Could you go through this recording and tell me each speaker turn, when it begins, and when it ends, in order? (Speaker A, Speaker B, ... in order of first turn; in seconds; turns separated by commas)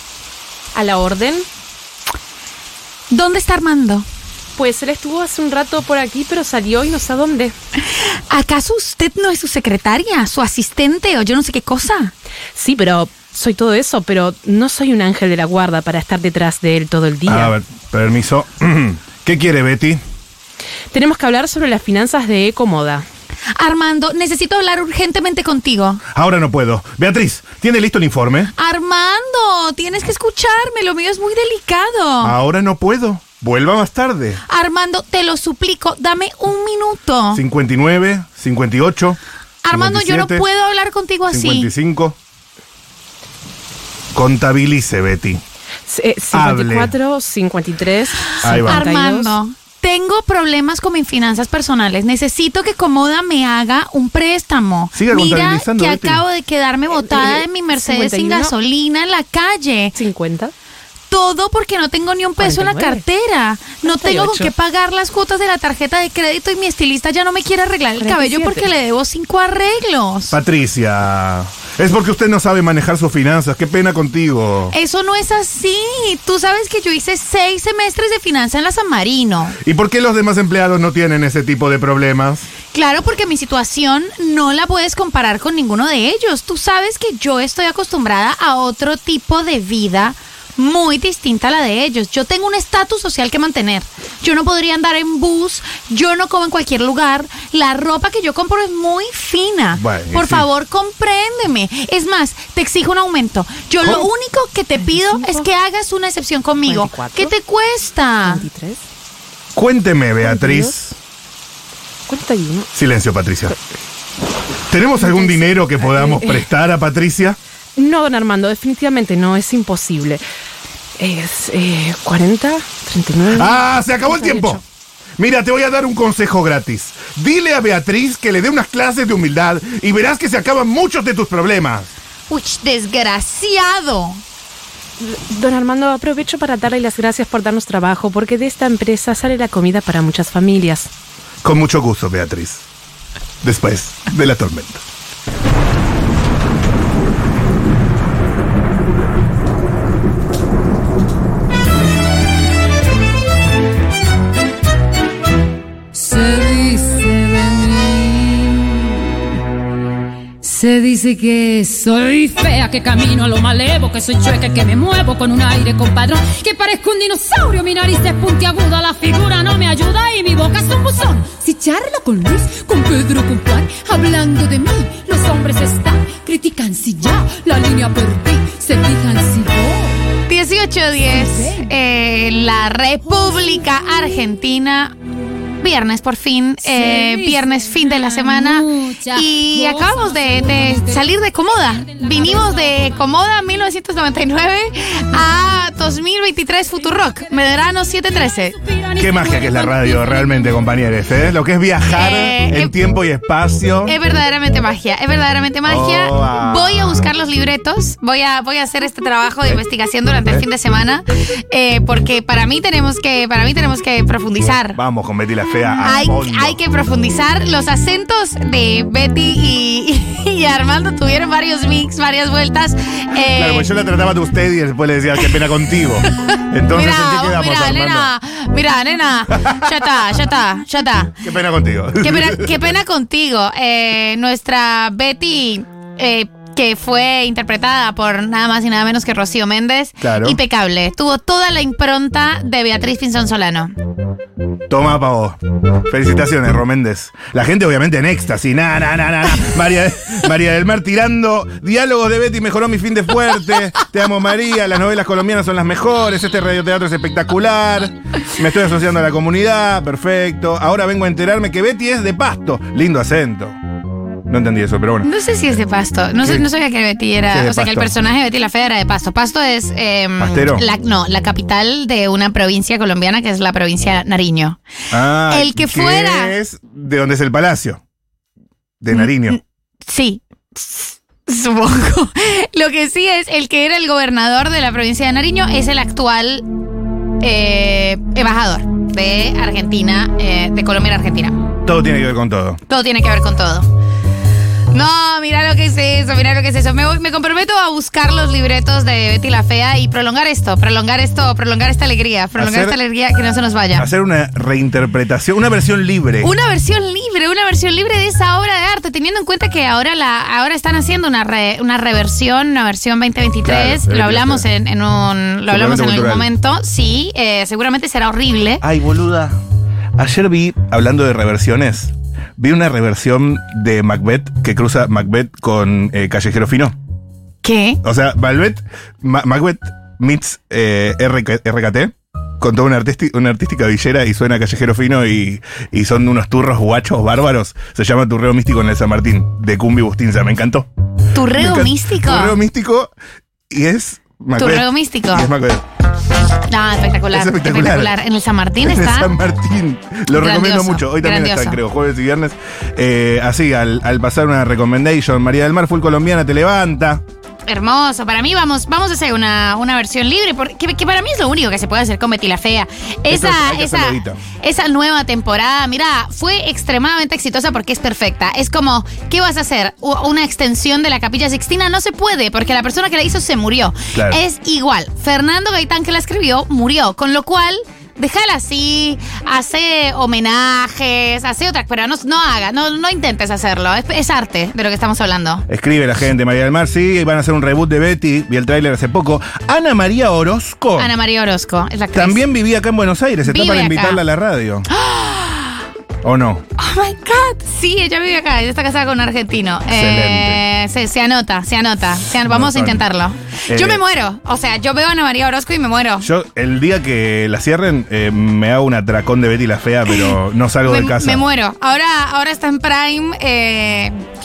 Speaker A: 0.7-1.4, Speaker B: 3.1-4.1, Speaker A: 4.5-7.5, Speaker B: 7.8-12.1, Speaker A: 12.5-17.5, Speaker C: 17.2-20.0, Speaker A: 20.9-23.1, Speaker B: 23.5-26.0, Speaker C: 26.1-28.5, Speaker B: 28.6-32.3, Speaker C: 32.2-34.4, Speaker B: 34.5-37.4, Speaker C: 37.3-39.2, Speaker B: 39.6-41.7, Speaker C: 39.7-40.4, Speaker C: 41.3-42.2, Speaker C: 44.1-45.4, Speaker A: 45.9-49.3, Speaker C: 46.3-46.9, Speaker B: 48.4-60.0, Speaker C: 48.4-48.8, Speaker C: 54.9-56.2, Speaker A: 56.9-58.5, Speaker A: 60.0-60.5, Speaker B: 61.1-70.4, Speaker A: 62.4-63.0, Speaker A: 63.8-64.5, Speaker A: 68.0-68.7, Speaker C: 70.3-74.7, Speaker B: 74.7-79.6, Speaker C: 79.6-82.5, Speaker B: 82.7-108.4, Speaker C: 99.8-100.5, Speaker A: 104.8-105.5, Speaker A: 106.6-107.3, Speaker A: 108.2-108.8, Speaker C: 109.5-111.0, Speaker A: 110.2-110.7, Speaker A: 112.1-112.7, Speaker C: 112.7-113.5, Speaker C: 114.7-117.4, Speaker A: 115.0-116.5, Speaker A: 117.8-120.2, Speaker A: 121.0-124.6, Speaker C: 123.3-124.6, Speaker C: 125.2-131.9, Speaker B: 132.3-134.2, Speaker A: 135.0-140.9, Speaker C: 141.4-142.7, Speaker C: 143.4-144.8, Speaker D: 155.9-158.8, Speaker D: 160.4-180.0, Speaker B: 180.3-184.9, Speaker D: 181.1-181.7, Speaker B: 185.6-198.6, Speaker D: 186.6-191.1, Speaker D: 198.6-200.2, Speaker C: 198.9-203.9, Speaker B: 201.9-202.7, Speaker B: 203.8-214.8, Speaker C: 205.6-207.0, Speaker C: 214.7-216.6, Speaker B: 215.8-223.7, Speaker C: 223.3-228.1, Speaker B: 226.2-231.2, Speaker C: 229.4-229.7, Speaker C: 231.2-232.6, Speaker B: 232.0-243.7, Speaker C: 240.0-240.4, Speaker C: 244.7-263.6, Speaker C: 264.3-265.1, Speaker B: 265.0-274.6, Speaker C: 267.3-268.0, Speaker C: 270.2-270.6, Speaker C: 274.9-277.8, Speaker B: 275.3-276.3, Speaker C: 278.8-279.4, Speaker B: 278.9-286.4, Speaker B: 287.2-291.4, Speaker C: 291.6-292.6, Speaker B: 292.7-293.7, Speaker B: 294.7-303.9, Speaker C: 302.4-302.8, Speaker C: 303.7-306.3, Speaker B: 306.2-318.6, Speaker C: 313.4-314.5, Speaker C: 315.5-316.3, Speaker C: 318.6-319.4, Speaker C: 320.0-326.7, Speaker B: 327.4-327.8, Speaker C: 327.8-340.7, Speaker B: 341.1-342.4, Speaker C: 341.3-342.9, Speaker C: 343.5-345.6, Speaker B: 344.4-345.3, Speaker B: 346.5-349.1, Speaker C: 347.1-347.9, Speaker C: 348.6-357.0, Speaker B: 350.1-351.6, Speaker B: 357.5-385.4, Speaker C: 363.1-364.2, Speaker C: 373.9-374.2, Speaker C: 385.5-390.9, Speaker B: 390.8-392.2, Speaker C: 391.9-394.6, Speaker B: 393.2-394.0, Speaker B: 394.7-395.6, Speaker C: 396.0-396.4, Speaker B: 396.6-406.1, Speaker C: 399.7-400.4, Speaker C: 402.2-402.9, Speaker C: 403.5-403.8, Speaker C: 406.0-411.2, Speaker B: 410.6-413.9